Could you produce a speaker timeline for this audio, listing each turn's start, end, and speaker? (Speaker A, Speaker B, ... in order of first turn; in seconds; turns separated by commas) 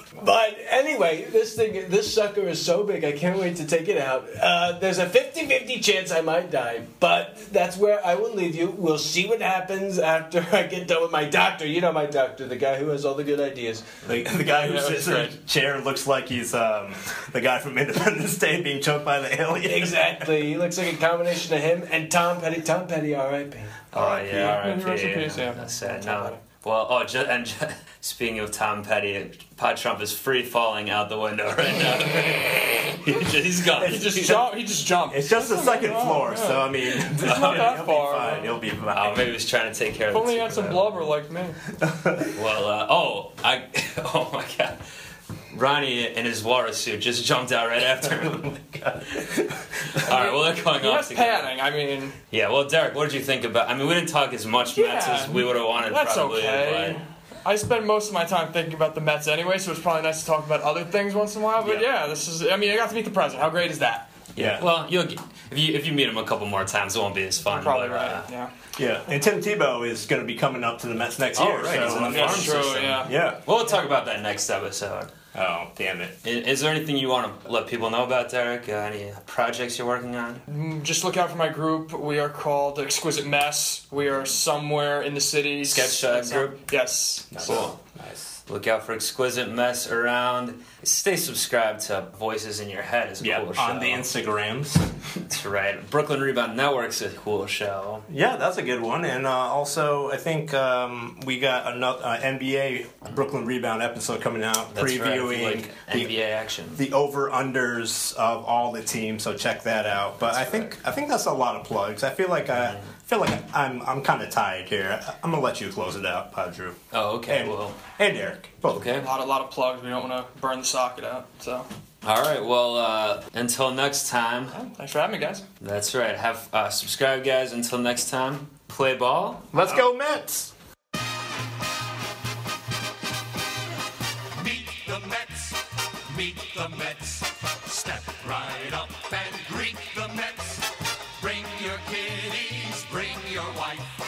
Speaker A: 0.2-13.9, Speaker B: 14.0-20.3, Speaker C: 14.5-15.3, Speaker A: 19.6-23.9, Speaker B: 23.9-24.6, Speaker D: 23.9-34.4, Speaker C: 24.4-26.4, Speaker B: 33.8-34.5, Speaker C: 33.8-38.5, Speaker B: 35.1-39.2, Speaker D: 37.2-37.8, Speaker D: 38.9-41.0, Speaker C: 40.1-41.6, Speaker B: 41.9-42.3, Speaker D: 42.3-44.8, Speaker D: 45.5-49.2, Speaker B: 48.9-49.6, Speaker D: 49.9-51.5, Speaker C: 50.0-52.1, Speaker D: 52.3-57.0, Speaker C: 54.7-64.1, Speaker B: 61.6-61.9, Speaker B: 64.4-64.7, Speaker D: 64.4-68.3, Speaker C: 67.5-68.5, Speaker B: 68.8-73.4, Speaker D: 71.3-75.1, Speaker C: 71.7-73.2, Speaker B: 75.3-76.2, Speaker D: 76.2-80.5, Speaker C: 80.5-87.7, Speaker D: 85.7-86.6, Speaker B: 87.3-88.4, Speaker D: 87.4-87.8, Speaker D: 88.5-94.1, Speaker B: 93.2-94.9, Speaker D: 95.3-98.1, Speaker B: 98.1-106.1, Speaker D: 104.7-106.8, Speaker B: 106.8-118.9, Speaker D: 110.2-110.7, Speaker D: 116.9-117.8, Speaker D: 118.7-119.1, Speaker C: 119.0-121.7, Speaker D: 122.0-124.6, Speaker C: 124.5-125.5, Speaker D: 125.6-129.5, Speaker B: 129.5-130.5, Speaker E: 134.3-143.9